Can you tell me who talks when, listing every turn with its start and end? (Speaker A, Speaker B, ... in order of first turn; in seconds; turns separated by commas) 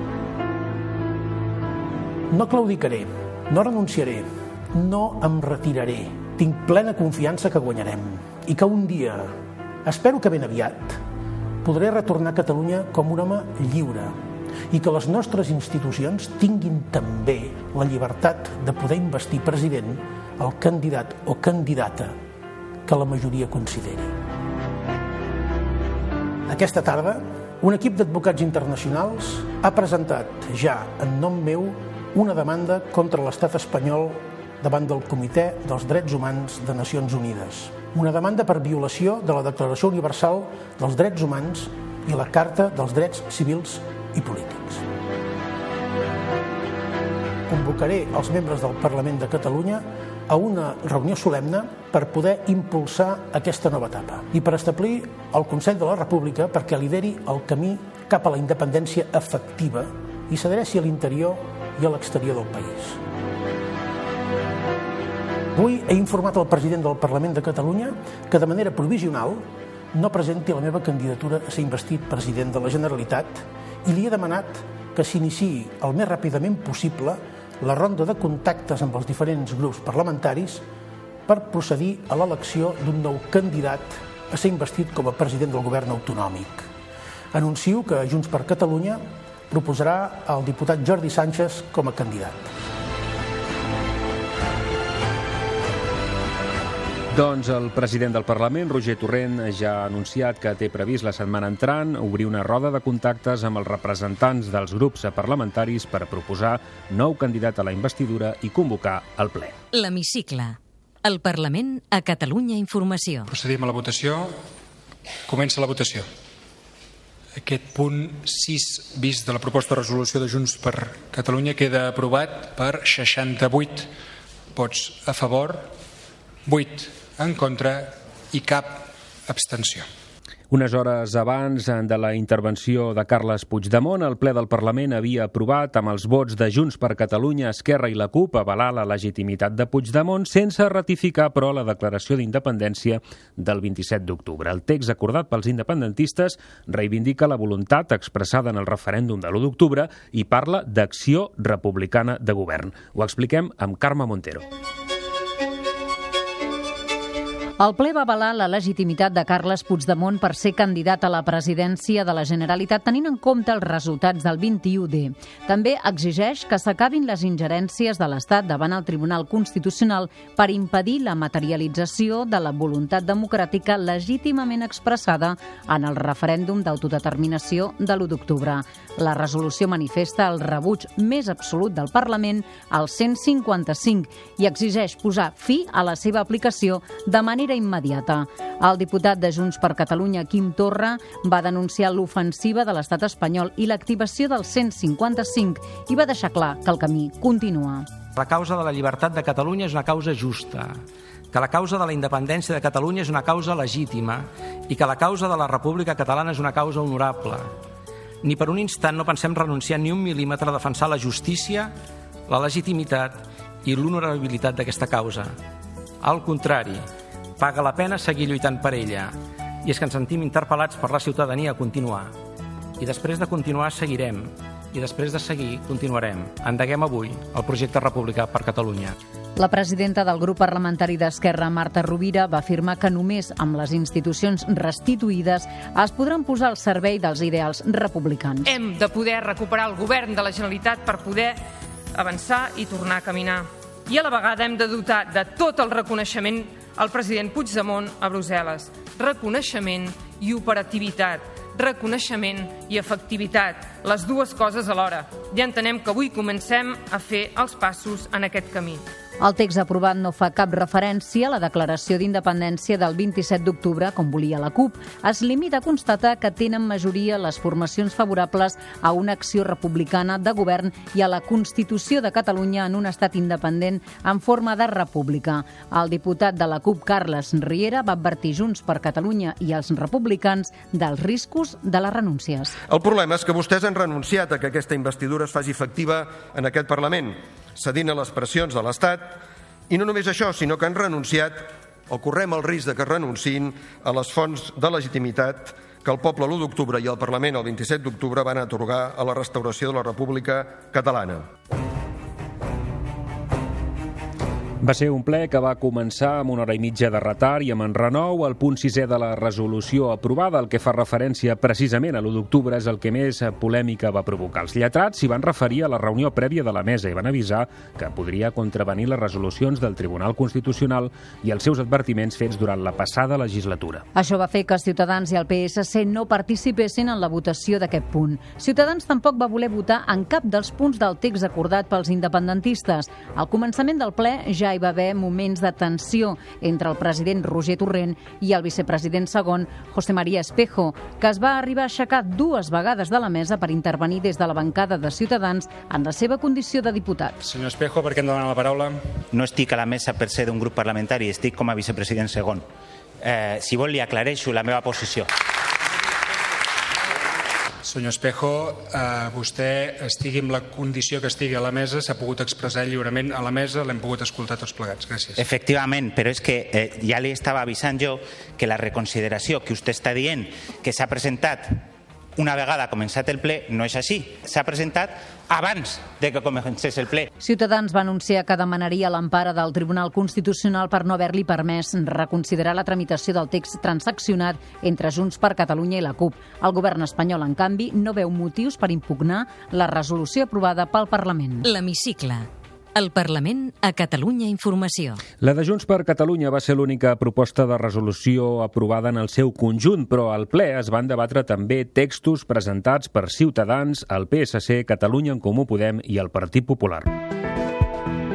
Speaker A: 2.3-9.3, Speaker A: 9.8-11.0, Speaker A: 11.6-14.1, Speaker A: 14.7-22.1, Speaker A: 22.8-24.1, Speaker A: 26.4-44.8, Speaker A: 47.5-63.0, Speaker A: 65.5-80.6, Speaker A: 81.3-86.7, Speaker A: 87.3-92.5, Speaker B: 97.1-109.6, Speaker C: 109.7-113.2, Speaker D: 113.2-114.4, Speaker D: 115.3-116.1, Speaker D: 117.4-123.9, Speaker D: 124.5-125.7, Speaker D: 126.4-129.9, Speaker B: 130.5-154.4, Speaker E: 157.6-197.9, Speaker F: 198.1-207.5, Speaker F: 208.2-211.7, Speaker F: 212.3-215.3, Speaker F: 216.0-216.9, Speaker F: 217.4-222.1, Speaker F: 222.8-228.9, Speaker E: 229.4-238.5, Speaker G: 238.4-241.4, Speaker G: 241.9-258.8, Speaker E: 259.2-282.6, Speaker H: 282.7-301.3, Speaker B: 304.6-323.8, Speaker E: 323.9-347.2, Speaker D: 347.2-349.0, Speaker I: 349.1-352.4, Speaker I: 353.0-355.1, Speaker D: 357.6-365.2, Speaker I: 365.2-377.1, Speaker E: 377.2-391.4, Speaker C: 391.4-395.0, Speaker B: 395.2-406.9